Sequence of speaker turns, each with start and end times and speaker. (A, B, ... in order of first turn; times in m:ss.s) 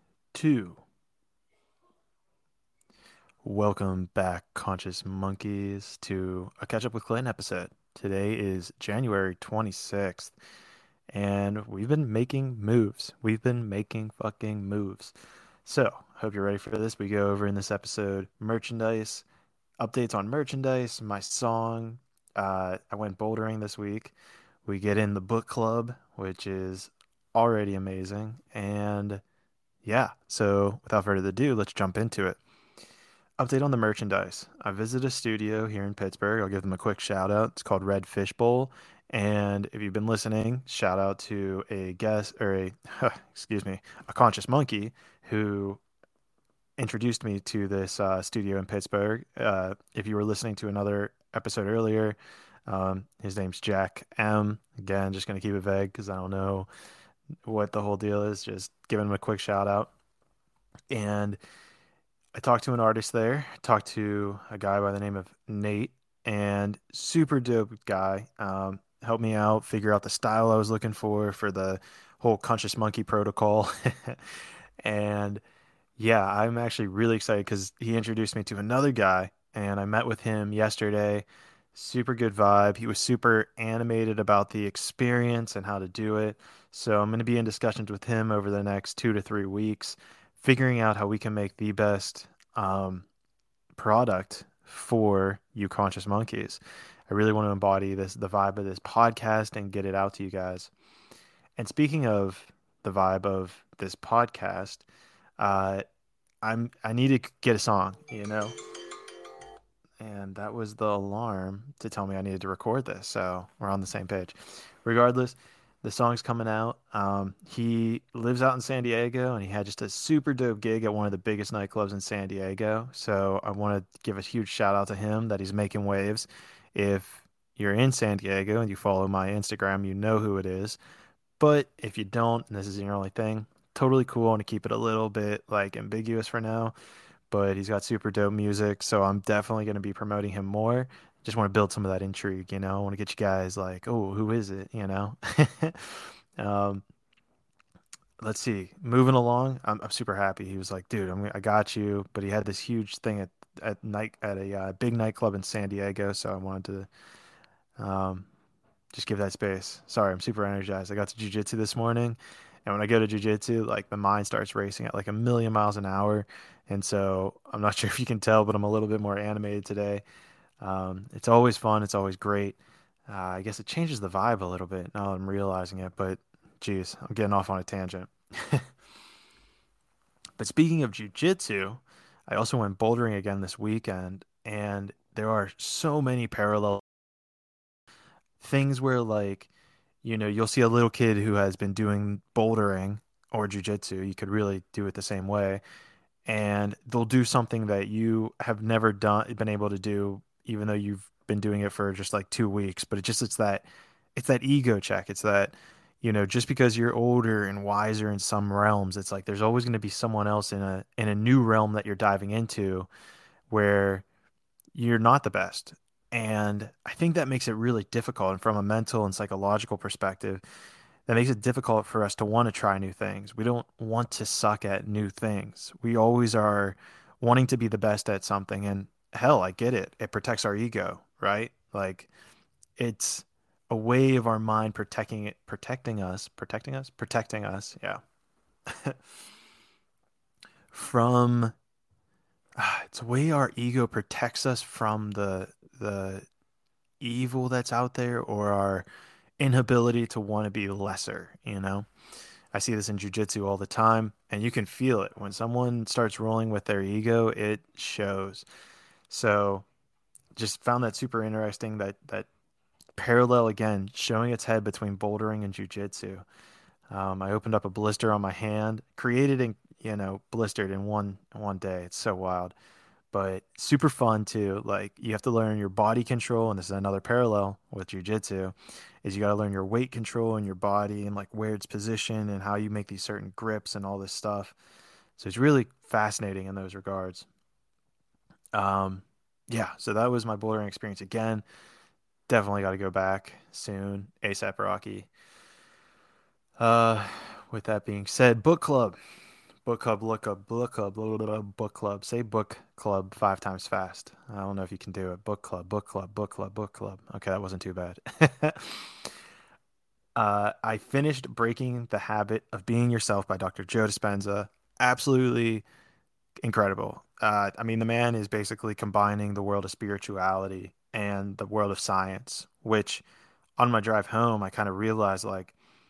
0:00.3-0:00.8 A
0:03.4-0:10.3 A
0:11.1-0:15.1 A
0:15.6-0:19.2 A
0:19.8-0:29.2 A
0:29.8-0:32.4 A
0:33.4-0:45.8 A
0:46.8-0:56.7 A
0:57.4-0:59.9 A
1:00.9-1:01.4 A
1:02.4-1:15.4 A
1:16.0-1:33.1 A
1:33.8-1:40.7 A
1:41.6-1:44.9 A
1:45.4-1:45.8 A
1:46.4-1:48.6 A
1:50.0-2:10.8 A
2:11.4-2:16.7 A
2:17.3-2:26.8 A
2:28.2-2:36.9 A
2:37.8-2:38.3 A
2:38.9-2:50.0 A
2:50.6-2:58.7 A
3:00.4-3:06.8 A
3:08.4-3:09.5 A
3:10.0-3:15.6 A
3:16.3-3:32.9 A
3:33.5-3:34.0 A
3:34.8-3:40.4 A
3:41.1-3:52.1 A
3:52.8-3:58.0 A
3:58.7-3:59.0 A
4:00.7-4:01.5 A
4:02.6-4:06.3 A
4:07.0-4:08.9 A
4:09.4-4:11.9 A
4:12.5-4:18.4 A
4:19.1-4:19.6 A
4:20.4-4:22.3 A
4:23.0-4:26.2 A
4:26.9-4:32.6 A
4:33.1-4:44.6 A
4:45.2-4:47.3 A
4:48.5-4:51.4 A
4:52.3-4:55.1 A
4:56.6-4:59.0 A
4:59.6-5:09.1 A
5:10.2-5:15.6 A
5:16.4-5:23.0 A
5:23.6-5:25.6 A